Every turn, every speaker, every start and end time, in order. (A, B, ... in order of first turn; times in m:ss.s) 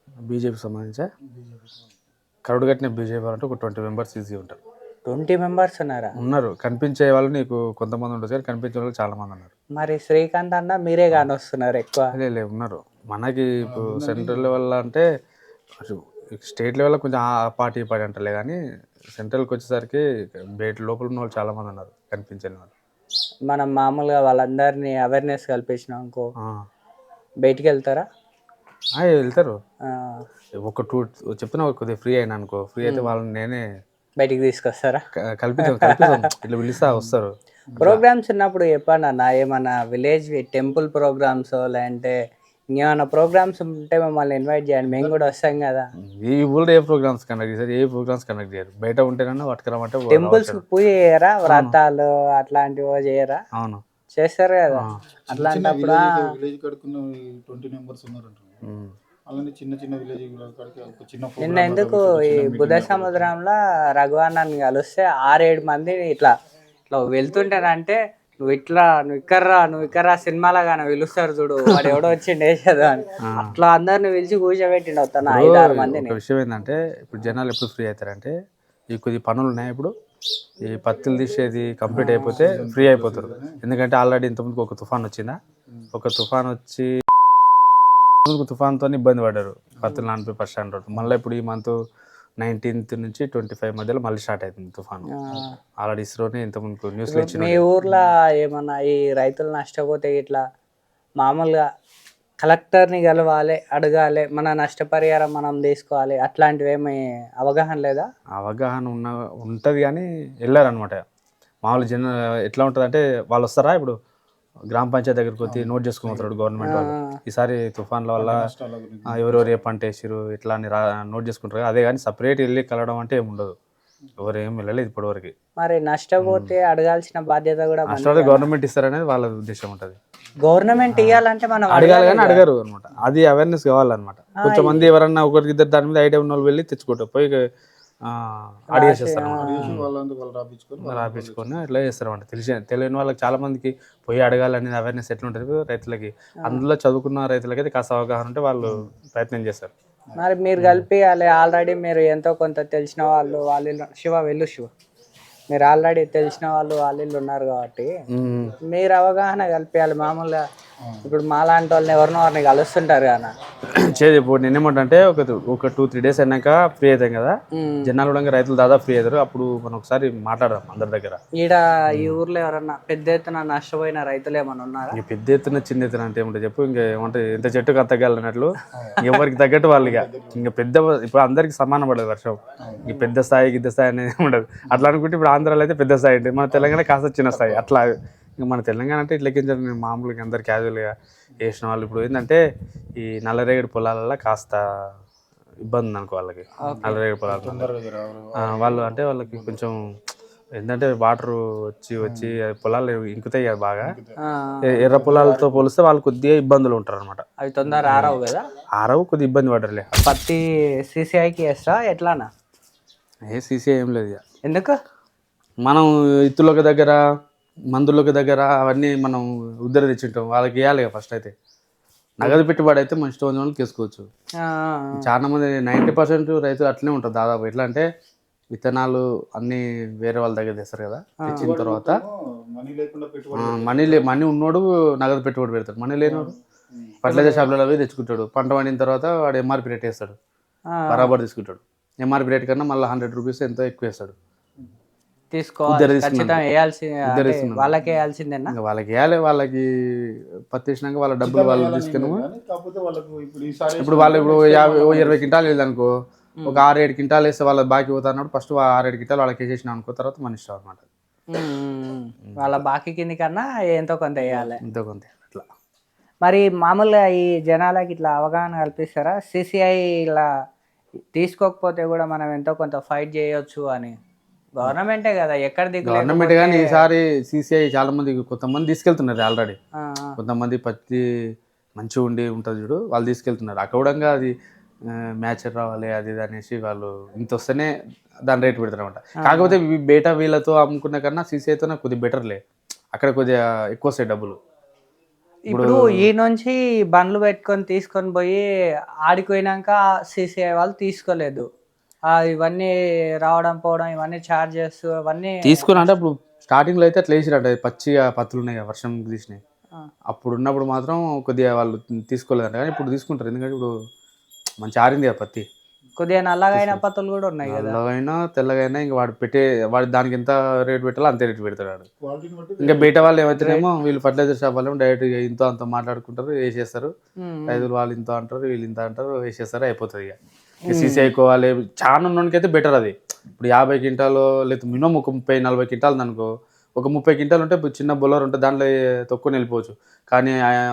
0:00.3-0:01.0 A
0:01.3-0:01.8 B
0:02.5-0:04.6 A
0:05.1-0:06.2 C
0:06.2-0:09.5 A
0:09.8-0:12.1 C
0:12.1-0:15.0 A
0:13.6-0:14.5 B
0:15.8-0:18.6 A
0:19.1-0:20.0 A
0:20.6-0:22.7 A
0:23.5-0:26.3 C
0:27.4-0:28.0 C
0:29.0-0:29.6 A
0:29.8-0:30.2 C
0:30.6-0:33.6 A
0:32.8-0:33.1 C
0:34.2-0:35.0 C
0:35.4-0:38.0 A
0:35.6-0:36.2 C
0:36.9-0:37.1 B
0:37.8-0:42.1 C
0:42.7-0:45.9 C
0:44.9-0:45.2 B
0:46.0-0:50.6 A
0:50.1-0:53.4 C
0:51.5-0:51.8 A
0:53.6-0:53.8 A
0:54.1-0:56.3 C
0:54.8-0:55.0 A
0:55.3-0:58.6 B
0:58.6-0:58.9 A
0:59.3-1:03.3 B
1:01.4-1:06.3 C
1:06.9-1:16.2 C
1:13.3-1:13.6 A
1:15.2-1:18.3 A
1:18.9-1:19.9 A
1:20.6-1:25.4 A
1:21.9-1:23.6 B
1:21.9-1:22.6 C
1:25.9-1:26.9 A
1:28.2-1:31.7 A
1:32.4-1:35.1 A
1:35.1-1:35.5 C
1:35.8-1:37.6 A
1:37.1-1:40.4 C
1:41.2-1:41.6 C
1:42.4-1:48.1 C
1:48.4-1:51.0 A
1:51.6-1:54.0 A
1:54.7-1:58.4 A
1:55.4-1:56.3 B
1:56.6-1:57.1 C
1:58.2-1:59.7 B
1:59.1-2:03.5 A
2:04.2-2:05.3 A
2:05.6-2:08.4 C
2:06.2-2:06.5 A
2:07.9-2:10.0 A
2:10.4-2:12.4 C
2:10.9-2:17.4 A
2:14.4-2:14.9 C
2:18.0-2:19.9 A
2:18.7-2:19.7 C
2:19.4-2:21.5 B
2:20.8-2:29.7 A
2:30.2-2:34.7 C
2:30.6-2:30.8 A
2:35.5-2:37.9 C
2:38.1-2:38.6 A
2:38.7-2:40.4 C
2:41.0-2:43.3 C
2:43.8-2:51.2 A
2:47.5-2:47.9 C
2:51.4-2:55.0 C
2:51.9-2:52.2 A
2:54.9-3:07.9 A
2:58.7-2:59.0 B
2:59.8-3:00.5 B
3:02.6-3:02.9 B
3:06.5-3:06.8 B
3:07.3-3:07.7 B
3:08.4-3:12.4 A
3:13.0-3:14.6 A
3:15.6-3:17.7 A
3:16.6-3:17.0 C
3:16.6-3:19.6 B
3:18.4-3:19.8 A
3:20.6-3:23.9 A
3:22.0-3:22.3 B
3:23.8-3:24.2 B
3:24.2-3:24.8 C
3:24.7-3:27.2 A
3:24.8-3:25.7 B
3:27.4-3:28.4 C
3:27.8-3:28.2 A
3:28.8-3:29.9 A
3:30.0-3:32.3 C
3:33.3-3:34.2 A
3:34.4-3:34.7 C
3:35.6-3:37.0 A
3:37.7-3:41.3 A
3:42.2-3:44.0 A
3:44.4-3:45.0 C
3:45.0-3:47.8 A
3:48.5-3:52.0 A
3:51.2-3:51.5 C
3:51.3-3:54.1 B
3:53.3-3:56.3 A
3:56.0-3:57.0 B
3:57.0-4:00.1 A
3:57.1-3:57.5 C
4:00.7-4:01.1 C
4:00.9-4:04.1 A
4:05.3-4:08.5 C
4:05.7-4:06.4 A
4:07.1-4:07.8 A
4:08.5-4:12.2 A
4:11.2-4:15.3 B
4:13.8-4:15.9 A
4:16.5-4:20.8 A
4:21.3-4:24.6 C
4:22.3-4:22.6 A
4:24.2-4:24.5 B
4:24.6-4:25.4 A
4:26.2-4:30.3 C
4:31.1-4:33.9 C
4:34.6-4:36.8 C
4:35.8-4:39.6 A
4:39.8-4:40.1 C
4:40.2-4:41.0 A
4:41.8-4:44.3 A
4:44.9-4:47.7 A
4:48.3-4:52.4 A
4:49.2-4:49.6 C
4:52.9-4:54.4 A
4:55.5-4:58.4 C
4:55.5-4:56.1 A
4:59.0-5:01.4 C
5:02.1-5:06.0 C
5:05.4-5:09.4 A
5:10.1-5:13.7 A
5:14.6-5:15.4 A
5:16.0-5:17.8 C
5:16.5-5:16.8 A
5:17.4-5:21.8 A
5:22.0-5:23.1 B
5:22.6-5:26.9 A
5:23.4-5:23.7 C
5:27.2-5:27.6 C
5:27.5-5:30.1 A
5:30.7-5:31.1 C
5:30.7-5:40.4 A